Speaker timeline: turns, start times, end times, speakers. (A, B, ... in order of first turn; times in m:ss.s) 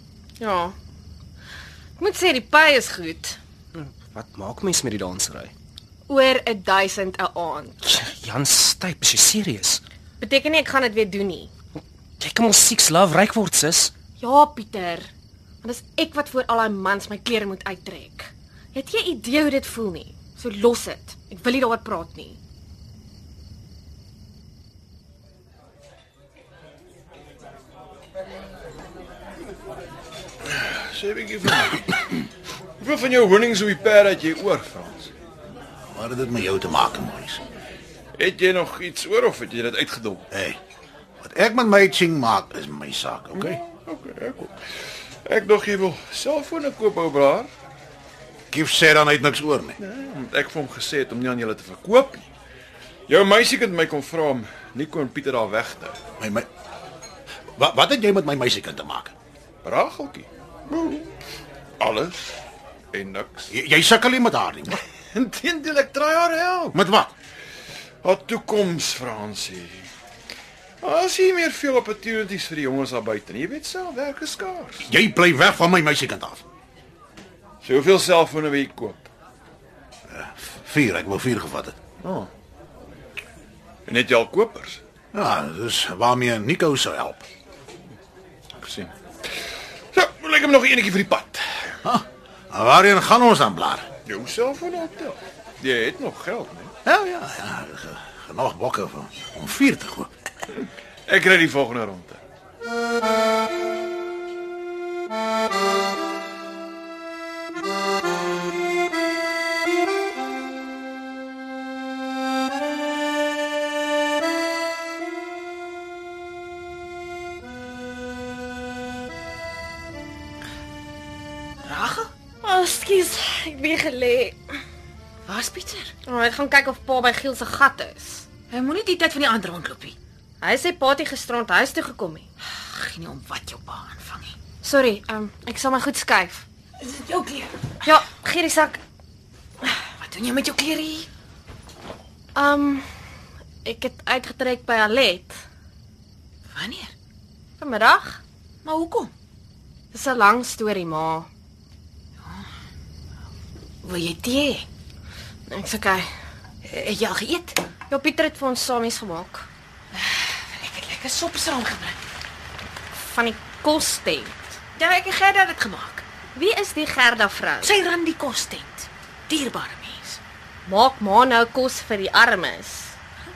0:00.4-0:00.8 A
0:02.0-0:03.4 A
0:03.7-0:05.5 B
0:06.1-0:07.9 A
0:07.8-0:09.8 B
0:10.2-0:11.5 A
0:12.2-0:13.9 B
0:14.2-0:15.1 A
0:15.6-0:22.4 A
0:30.5-0:32.2 C
0:32.8-0:35.1 C
0:35.9-0:37.4 D
0:38.2-0:40.3 C
0:40.3-0:40.6 D
0:41.2-0:43.6 D
0:43.4-0:44.6 C
0:45.2-0:47.5 C
0:48.5-0:49.8 D
0:49.8-0:52.3 C
0:53.1-0:56.0 C
0:56.2-0:56.5 D
0:57.6-0:59.1 D
0:59.6-1:01.1 C
1:01.8-1:02.4 C
1:02.9-1:03.5 C
1:03.5-1:04.8 D
1:05.1-1:06.8 C
1:06.7-1:07.1 D
1:08.0-1:09.9 C
1:10.8-1:14.9 C
1:14.8-1:16.4 D
1:17.6-1:19.1 C
1:20.1-1:21.8 D
1:22.0-1:22.3 C
1:23.9-1:24.8 C
1:25.1-1:27.2 D
1:28.6-1:28.9 C
1:29.9-1:31.8 C
1:31.8-1:33.9 D
1:34.1-1:36.7 C
1:36.8-1:40.1 D
1:41.1-1:42.2 C
2:01.6-2:02.1 E
2:02.4-2:04.4 A
2:05.3-2:05.8 E
2:06.0-2:08.3 A
2:08.5-2:09.9 E
2:10.4-2:12.3 A
2:12.7-2:14.3 E
2:14.6-2:16.4 A
2:16.8-2:17.7 E
2:17.8-2:18.8 A
2:20.0-2:21.1 E
2:22.4-2:22.9 A
2:23.6-2:25.4 A
2:26.5-2:26.9 E
2:27.6-2:28.2 A
2:28.6-2:29.1 E
2:29.9-2:31.3 A
2:33.8-2:34.6 E
2:35.5-2:36.1 A
2:36.6-2:37.6 E
2:37.9-2:39.5 A
2:40.0-2:42.0 E
2:43.0-2:45.6 A
2:45.6-2:46.0 E
2:46.4-2:47.8 A
2:47.7-2:50.2 E
2:50.7-2:53.0 A